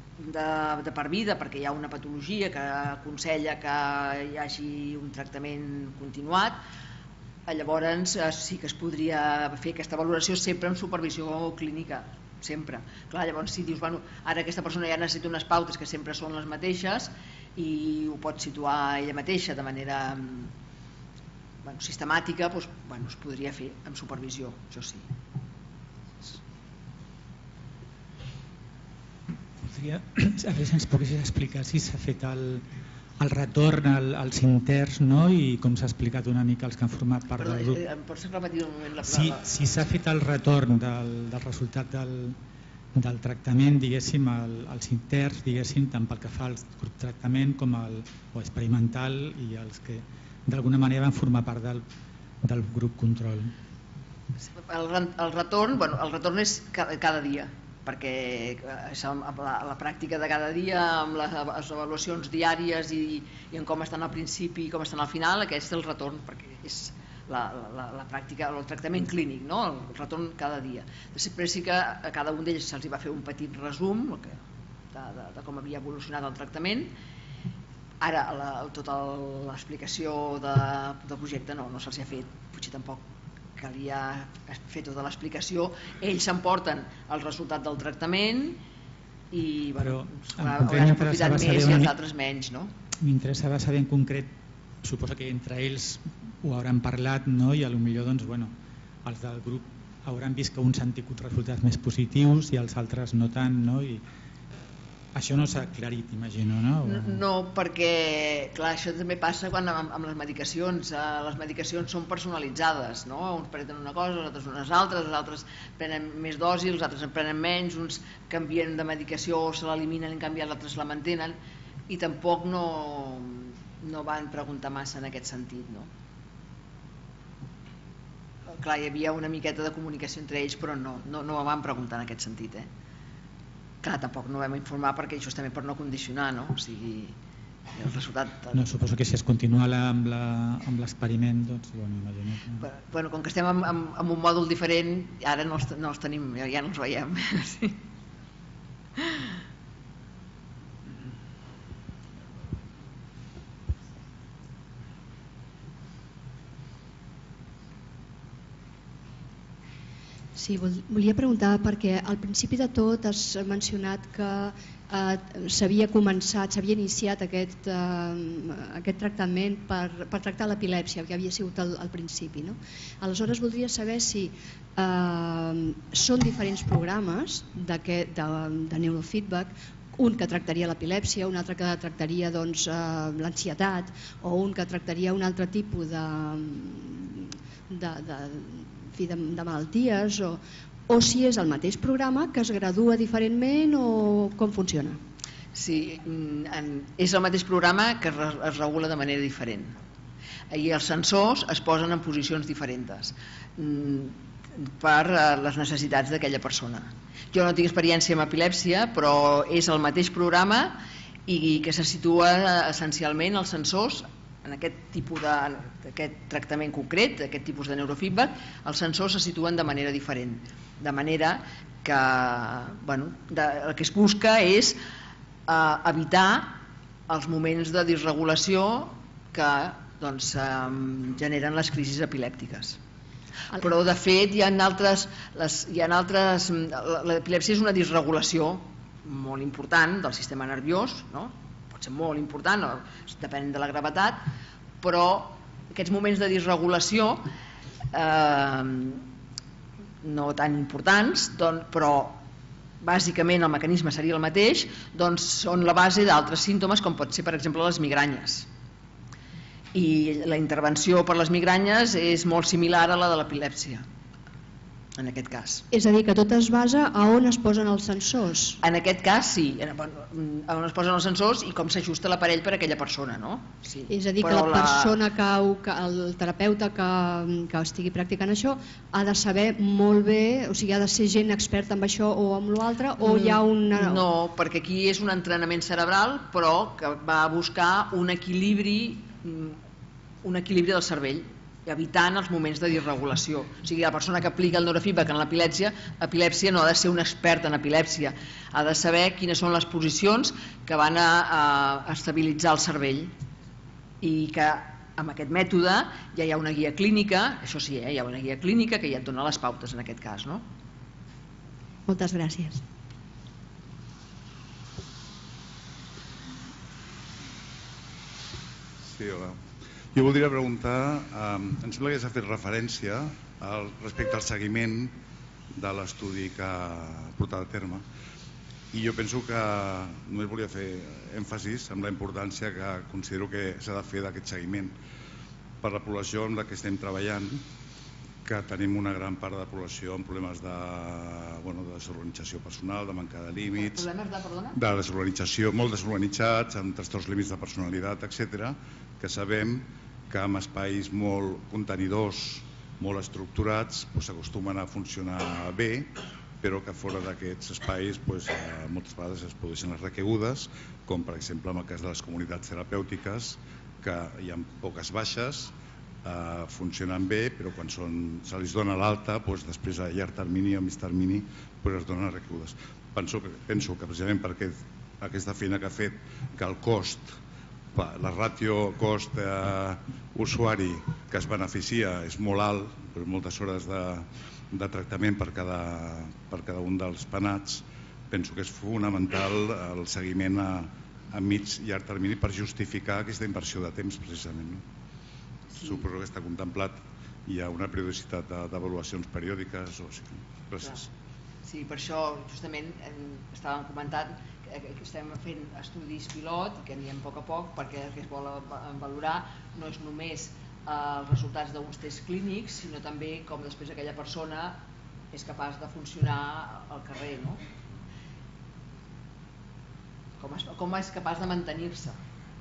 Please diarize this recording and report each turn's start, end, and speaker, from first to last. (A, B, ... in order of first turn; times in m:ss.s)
0:00.2-0:06.6 A
0:07.5-0:20.5 A
0:21.6-0:25.1 A
0:29.6-0:32.6 B
0:33.2-0:37.8 B
0:37.4-0:39.4 A
0:39.0-0:42.4 B
0:42.9-0:51.8 B
0:52.4-0:53.5 B
0:54.6-1:14.4 A
1:14.9-1:16.9 A
1:18.0-1:23.0 A
1:23.6-1:28.6 A
1:29.3-1:32.7 A
1:29.8-1:31.9 B
1:33.0-1:38.5 B
1:39.0-1:44.0 B
1:45.1-1:47.2 B
1:46.8-2:01.4 A
2:01.9-2:05.9 A
2:08.5-2:12.7 A
2:13.8-2:17.1 A
2:17.7-2:18.6 A
2:18.5-2:22.6 B
2:22.6-2:27.8 A
2:29.0-2:29.2 A
2:40.4-3:15.0 C
3:15.5-3:19.7 A
3:20.5-3:44.8 A
3:45.5-3:52.8 A
3:53.5-4:04.2 A
4:04.8-4:07.2 A
4:07.9-4:09.0 A
4:10.0-4:12.2 A
4:12.8-4:18.5 A
4:19.7-4:23.8 A
4:25.0-4:25.6 A
4:25.7-4:28.6 C
4:28.6-4:34.9 A
4:33.9-4:44.0 C
4:43.0-4:49.6 A
4:50.2-5:03.1 A
5:04.0-5:10.4 A
5:11.9-5:12.6 C
5:18.8-5:19.4 D
5:19.9-5:24.9 D
5:25.6-5:27.8 D
5:28.7-5:34.7 D
5:35.6-5:37.4 D
5:38.2-5:43.9 D
5:43.6-5:44.6 A
5:44.5-6:17.1 D
6:17.7-6:34.6 D
6:35.6-6:40.9 D
6:35.6-6:35.8 A
6:41.4-6:54.6 A
6:55.1-6:57.4 A
7:00.2-7:02.0 A